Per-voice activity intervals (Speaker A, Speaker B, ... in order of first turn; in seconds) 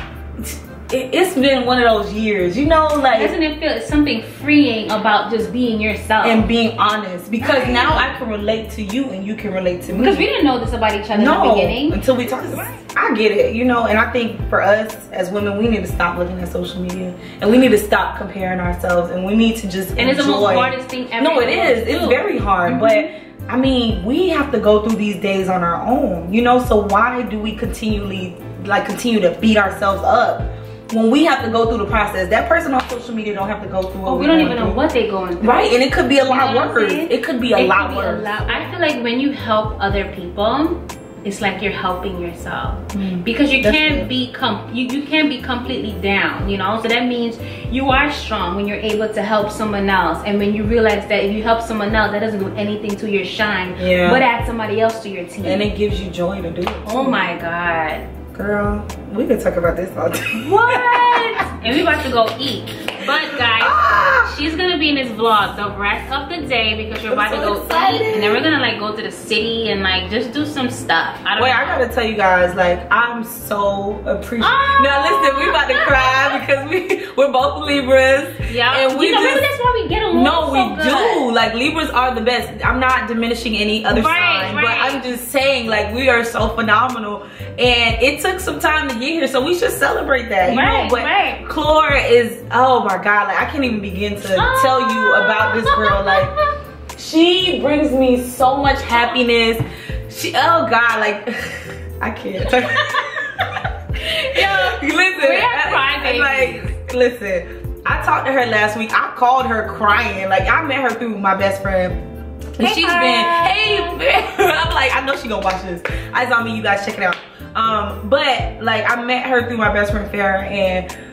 Speaker A: 0.4-3.3, 6.2-10.3, 11.1-34.8, 35.4-38.6, 42.9-44.1, 53.8-54.2, 55.4-57.3, 58.3-61.8, 63.2-64.3, 67.1-68.5, 71.4-79.5, 80.1-96.3, 96.9-103.6, 104.3-112.0, 112.6-120.8
Speaker B: 3.1-6.5, 7.4-8.1, 9.9-12.0, 20.0-23.1, 34.0-55.6, 56.8-58.1, 60.4-71.8, 74.4-76.4, 78.5-81.2, 83.9-85.0, 90.4-91.4, 94.3-96.4, 98.8-99.2, 104.0-106.6, 112.6-114.0